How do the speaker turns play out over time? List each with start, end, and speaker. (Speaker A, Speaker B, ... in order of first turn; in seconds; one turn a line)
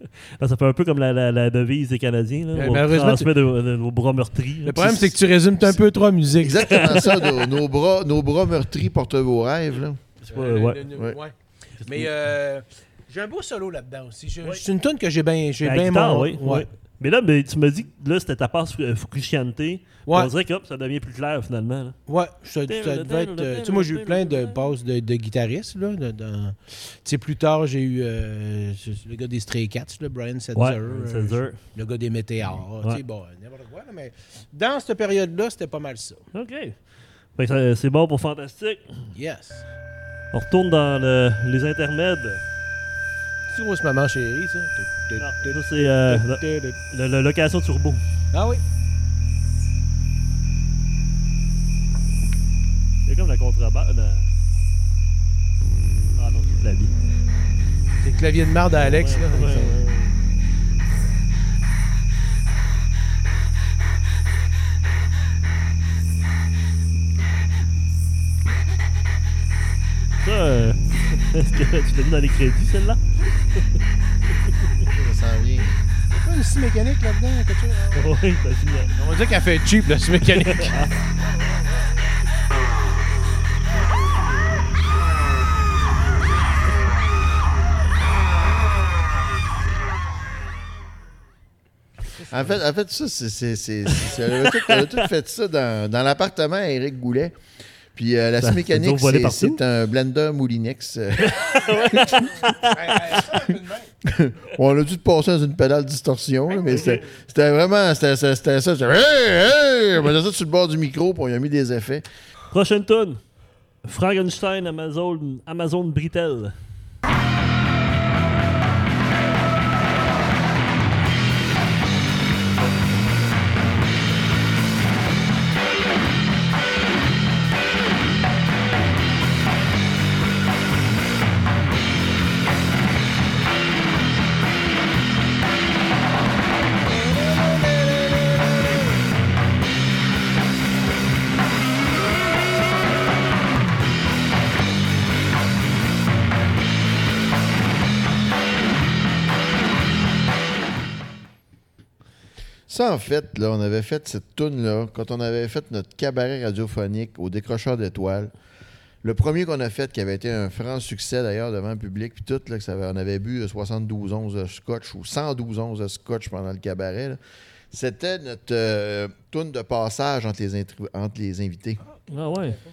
Speaker A: 0.4-5.2
Speaker B: 2.5-3.3
Speaker B: 4.7-7.0
Speaker C: 6.4-10.0
Speaker A: 6.7-7.4
Speaker A: 10.2-10.9
Speaker B: 10.3-16.7
Speaker C: 10.9-11.2
Speaker A: 11.8-12.1
Speaker A: 15.6-22.0
Speaker B: 22.1-36.3
Speaker A: 22.7-24.6
Speaker A: 30.6-31.6
Speaker A: 36.3-36.8
Speaker A: 37.4-39.0
Speaker B: 39.1-39.7
Speaker A: 40.3-42.4
Speaker B: 43.5-46.8
Speaker A: 45.2-48.0
Speaker B: 48.3-48.6
Speaker A: 53.1-54.3
Speaker A: 56.2-56.9
Speaker B: 58.0-59.8
Speaker A: 58.8-60.1
Speaker A: 70.2-73.8
Speaker C: 74.8-75.8
Speaker B: 76.1-78.2
Speaker A: 77.9-78.9
Speaker B: 79.0-80.8
Speaker A: 80.3-80.9
Speaker B: 92.2-92.5
Speaker C: 92.3-97.3
Speaker A: 94.5-94.9
Speaker C: 98.0-102.2
Speaker A: 98.4-99.6
Speaker A: 101.2-103.2
Speaker B: 102.6-103.9
Speaker C: 104.0-112.0
Speaker A: 112.5-113.2
Speaker A: 113.8-116.5
Speaker C: 152.7-158.3
Speaker C: 159.0-167.2
Speaker C: 167.7-171.8
Speaker A: 172.1-172.6